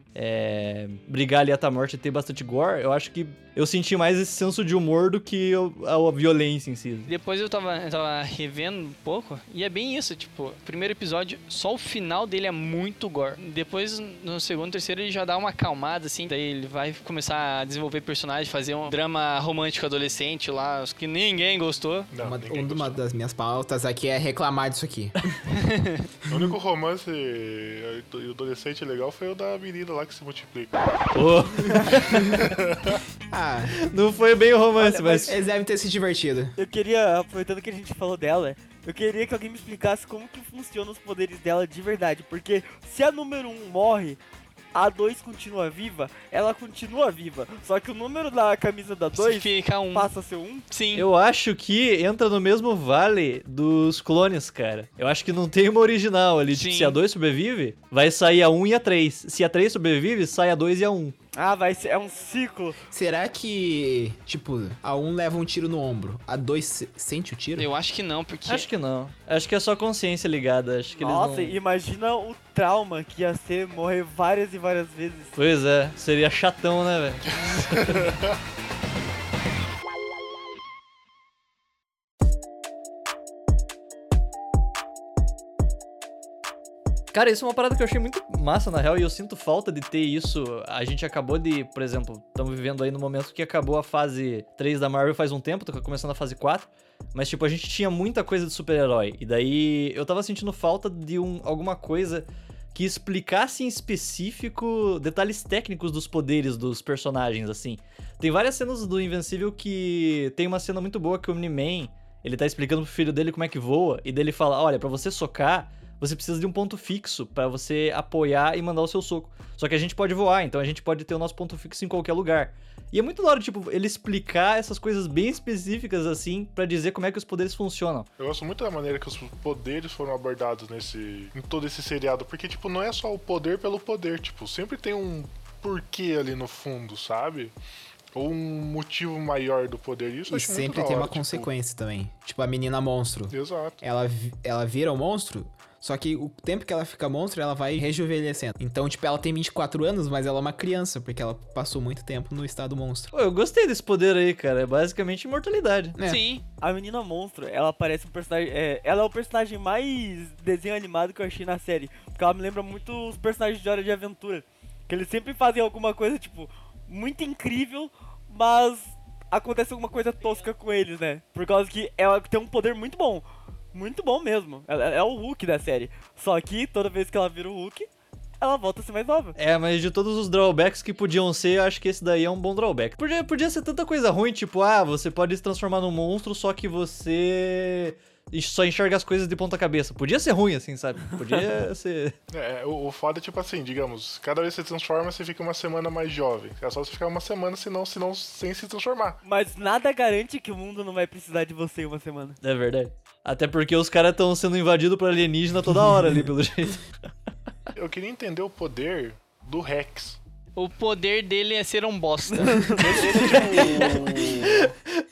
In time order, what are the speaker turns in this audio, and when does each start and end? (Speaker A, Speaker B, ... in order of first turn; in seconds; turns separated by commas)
Speaker A: 0.1-7.1, Speaker B: 7.1-22.1, Speaker C: 22.1-22.9, Speaker D: 22.2-25.1, Speaker B: 25.5-26.1, Speaker C: 26.3-30.8, Speaker A: 31.1-32.4, Speaker C: 32.1-33.0, Speaker D: 33.3-33.8, Speaker A: 33.9-35.3, Speaker E: 34.8-35.4, Speaker D: 35.3-36.5, Speaker E: 36.6-44.2, Speaker E: 44.7-50.6, Speaker B: 49.2-50.1, Speaker B: 50.7-51.1, Speaker A: 51.0-61.1, Speaker B: 56.5-57.0, Speaker E: 61.3-62.8, Speaker D: 62.9-67.7, Speaker B: 67.6-68.7, Speaker A: 68.5-71.6, Speaker E: 71.0-75.3, Speaker A: 75.3-78.1, Speaker C: 77.8-78.3, Speaker A: 87.1-128.1, Speaker C: 128.2-137.5, Speaker C: 138.2-141.5, Speaker D: 140.3-153.1, Speaker C: 143.3-143.8, Speaker A: 153.1-156.0, Speaker D: 156.0-156.2, Speaker B: 156.0-156.4, Speaker E: 156.6-177.9, Speaker E: 178.4-179.4, Speaker A: 179.4-192.2, Speaker C: 192.3-199.2, Speaker E: 199.2-202.4, Speaker A: 202.4-207.1, Speaker C: 207.8-210.2, Speaker B: 210.6-214.2, Speaker E: 212.3-213.2, Speaker C: 212.8-214.7, Speaker A: 213.6-214.7